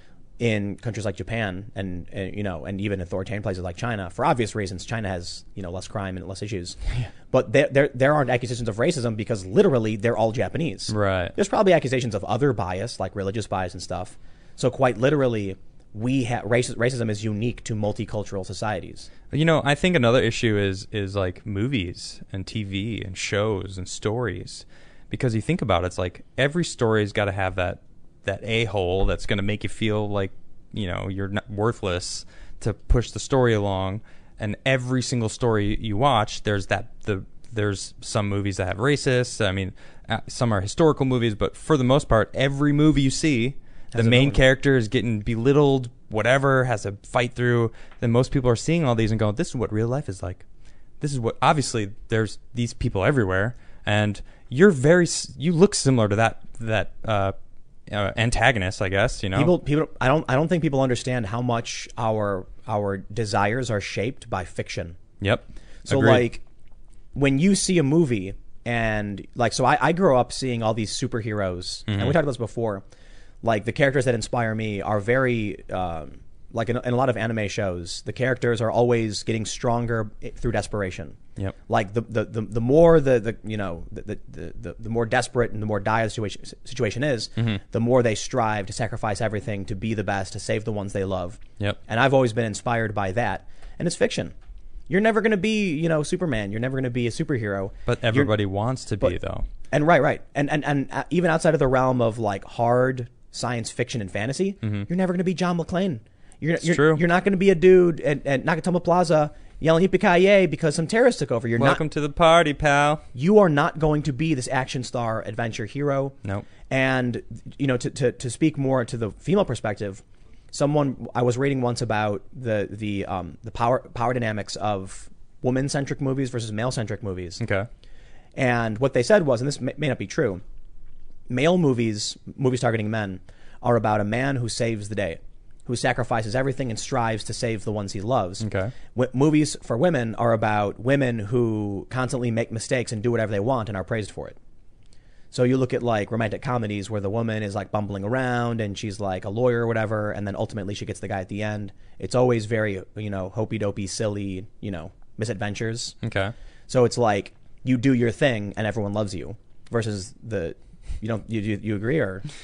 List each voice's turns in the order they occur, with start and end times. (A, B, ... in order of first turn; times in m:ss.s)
0:00.4-0:06.8 A
0:07.3-0:19.1 A
0:10.9-0:11.3 B
0:19.3-0:50.4 B
0:43.9-0:44.4 A
0:51.0-0:57.3 B
0:57.9-0:59.5 B
0:59.3-1:05.0 A
1:05.2-1:06.3 B
1:05.8-1:06.4 A
1:07.1-1:12.8 A
1:11.9-1:12.2 B
1:13.4-1:34.3 A
1:34.9-1:38.3 A
1:37.8-1:39.5 B
1:39.7-1:51.8 A
1:44.6-1:44.9 B
1:46.6-1:47.0 B
1:51.6-1:53.0 B
1:53.1-1:56.1 A
1:56.7-2:07.4 A
2:07.4-2:07.7 B
2:08.3-2:10.4 A
2:11.3-2:24.4 A
2:18.4-2:18.7 B
2:25.3-2:36.0 A
2:36.0-2:36.3 B
2:36.7-2:42.2 A